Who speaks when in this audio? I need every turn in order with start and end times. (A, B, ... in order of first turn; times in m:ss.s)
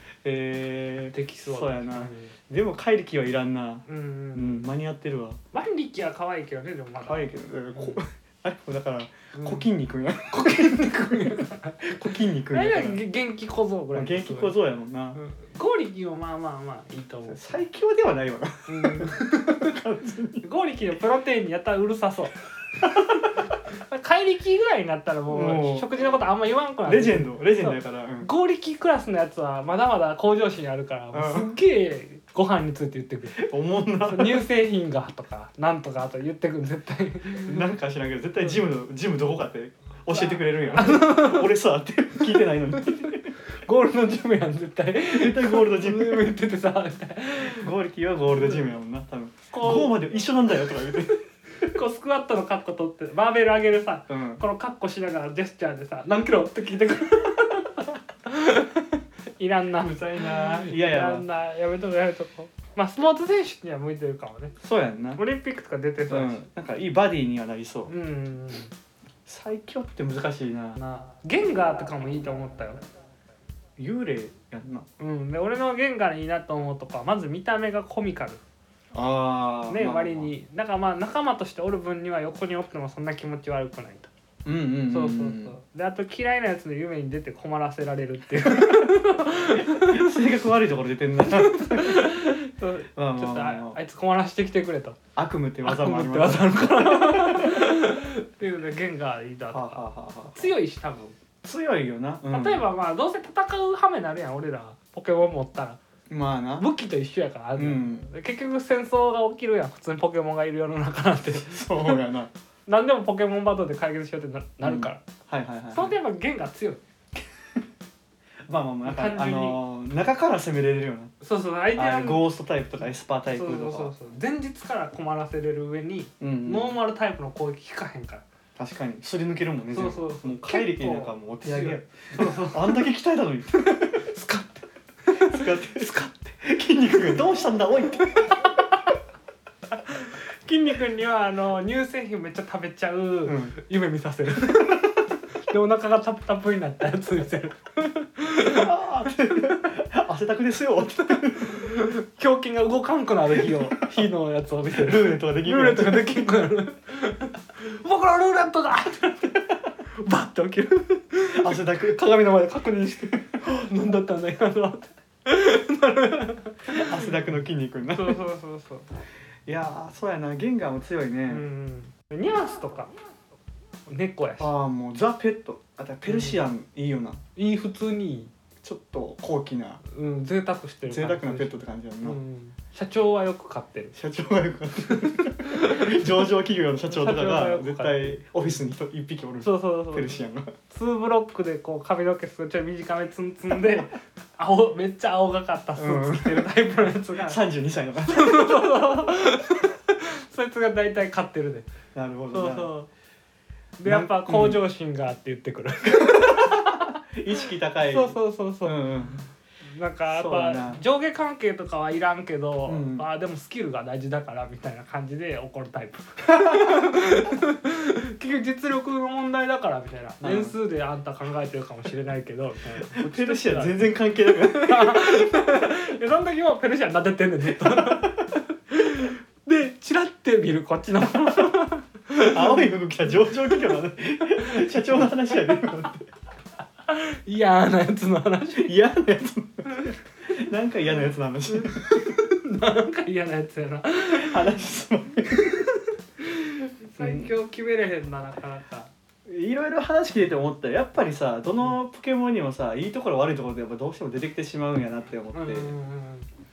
0:00.2-0:05.4 A
0:01.1-0:02.3 B
0:03.9-0:04.7 B
0:05.5-0:08.0 B
0:07.0-0:13.0 A
0:09.3-0:09.6 B
0:10.3-0:12.0 B
0:12.5-0:14.6 B
0:13.9-0:15.2 A
0:15.1-0:17.6 B
0:17.3-0:20.4 A
0:18.7-0:19.8 B
0:20.4-0:22.4 B
0:23.7-0:33.4 B
0:25.3-0:25.9 A
0:26.8-0:28.3 A
0:31.1-0:31.5 A
0:33.4-0:34.4 A
0:34.0-0:37.7 B
0:37.4-0:43.3 A
0:40.2-0:41.5 B
0:42.8-0:47.7 B
0:45.1-0:46.3 A
0:47.4-0:51.2 A
0:49.5-0:50.0 B
0:51.6-1:04.6 B
0:54.1-0:54.4 A
0:59.8-1:01.2 A
1:04.6-1:05.2 A
1:05.2-1:06.5 B
1:06.1-1:07.9 A
1:07.9-1:08.7 B
1:09.2-1:10.8 A
1:10.8-1:12.8 B
1:13.8-1:14.9 A
1:15.0-1:18.4 B
1:18.9-1:20.3 A
1:19.7-1:24.1 B
1:24.4-1:25.6 A
1:24.9-1:30.2 B
1:28.4-1:32.3 A
1:31.2-1:35.0 B
1:33.0-1:33.8 A
1:35.2-1:37.8 A
1:35.6-1:41.2 B
1:39.5-1:40.5 A
1:41.4-1:42.6 A
1:42.3-1:45.8 B
1:46.1-1:46.7 A
1:46.6-1:52.0 B
1:47.5-1:48.1 A
1:51.3-1:52.3 A
1:52.7-1:55.0 B
1:54.6-1:55.9 A
1:55.7-1:56.8 B
1:58.4-2:01.1 A
1:58.8-1:59.6 B
2:01.2-2:02.2 B
2:01.7-2:03.9 A
2:03.3-2:08.2 B
2:06.2-2:06.8 A
2:08.6-2:14.1 A
2:09.7-2:12.8 B
2:13.8-2:16.3 B
2:15.1-2:18.5 A
2:19.9-2:25.0 B
2:23.2-2:23.6 A
2:25.5-2:28.7 B
2:28.4-2:31.7 A
2:29.3-2:29.7 B
2:31.0-2:47.1 B
2:34.8-2:36.3 A
2:41.3-2:43.2 A
2:46.7-2:48.2 A
2:47.9-2:48.9 B
2:49.5-2:51.4 A
2:51.3-2:52.9 B
2:53.9-2:54.5 B
2:54.4-2:57.2 A
2:56.1-2:56.4 B
2:57.4-2:58.3 B
2:58.6-2:59.8 A
2:59.9-3:04.0 B
3:00.8-3:02.2 A
3:03.9-3:10.5 A
3:04.8-3:06.2 B
3:06.9-3:08.3 B
3:09.4-3:17.4 B
3:15.8-3:16.5 A
3:17.2-3:18.3 A
3:18.0-3:21.7 B
3:21.9-3:22.7 A
3:22.3-3:22.9 B
3:23.8-3:26.9 B
3:23.8-3:24.6 A
3:25.9-3:29.2 A
3:27.9-3:29.0 B
3:29.6-3:52.7 B
3:30.1-3:30.8 A
3:32.6-3:33.0 A
3:36.3-3:37.0 A
3:40.2-3:40.5 A
3:42.8-3:45.1 A
3:47.5-3:48.2 A
3:51.2-3:51.6 A
3:52.2-3:56.1 A
3:54.4-3:55.6 B
3:56.9-3:58.8 B
3:58.6-4:02.2 A
4:01.5-4:04.6 B
4:04.0-4:05.6 A
4:05.3-4:08.9 B
4:07.0-4:07.3 A
4:09.2-4:15.8 A
4:15.3-4:16.3 B